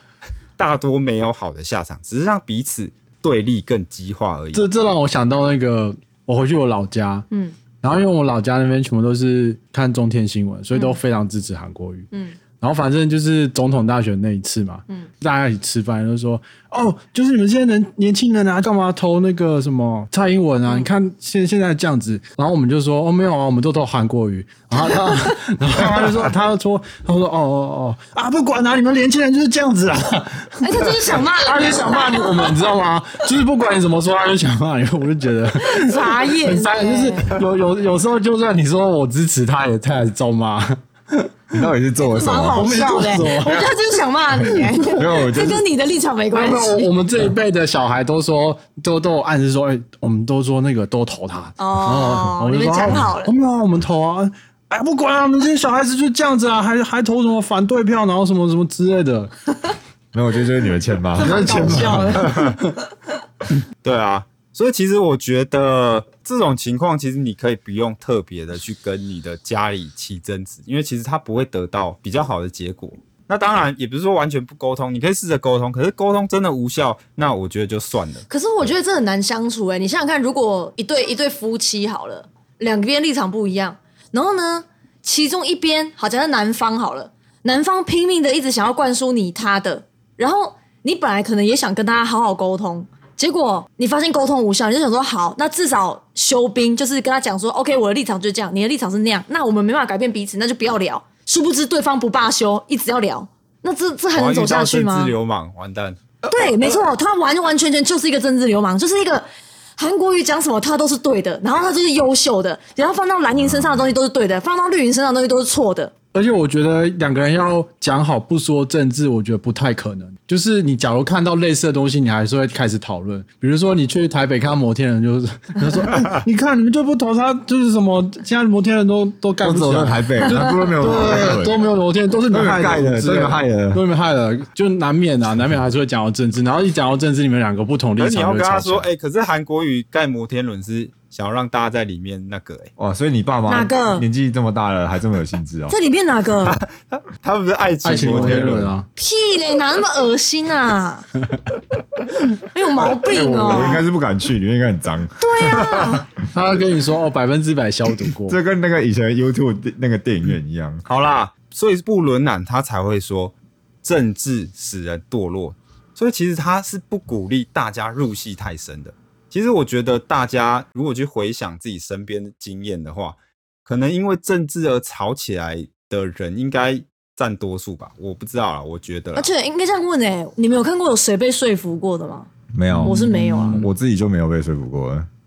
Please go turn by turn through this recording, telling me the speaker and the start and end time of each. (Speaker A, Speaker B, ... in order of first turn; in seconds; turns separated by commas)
Speaker A: 0.6-4.7, Speaker B: 4.5-7.3, Speaker C: 7.3-7.5, Speaker B: 7.8-12.1, Speaker C: 10.7-11.0, Speaker C: 12.1-12.4, Speaker B: 12.6-41.6, Speaker C: 30.6-32.6, Speaker C: 35.6-37.3, Speaker D: 41.5-42.7, Speaker C: 42.0-46.9, Speaker B: 42.5-43.7, Speaker D: 44.9-45.6, Speaker B: 46.3-59.3, Speaker C: 51.6-53.3, Speaker D: 60.1-62.3, Speaker C: 61.1-62.5, Speaker B: 61.2-62.6, Speaker A: 63.8-78.3, Speaker C: 78.3-105.1, Speaker A: 104.1-106.1, Speaker C: 106.3-109.2, Speaker C: 109.8-115.9, Speaker D: 113.3-113.9, Speaker B: 116.1-138.9, Speaker D: 129.4-131.6, Speaker D: 132.3-133.8, Speaker A: 138.0-142.7, Speaker D: 142.8-145.7, Speaker C: 143.5-144.1, Speaker C: 145.7-146.6, Speaker A: 146.4-148.7, Speaker B: 147.8-148.9, Speaker D: 147.9-148.7, Speaker C: 148.9-151.1, Speaker C: 152.4-153.8, Speaker D: 152.8-156.0, Speaker C: 155.2-156.1, Speaker B: 156.3-158.4, Speaker D: 158.3-160.8, Speaker A: 160.8-179.3, Speaker C: 179.1-182.3, Speaker D: 182.5-185.1, Speaker B: 182.7-183.5, Speaker C: 182.8-183.6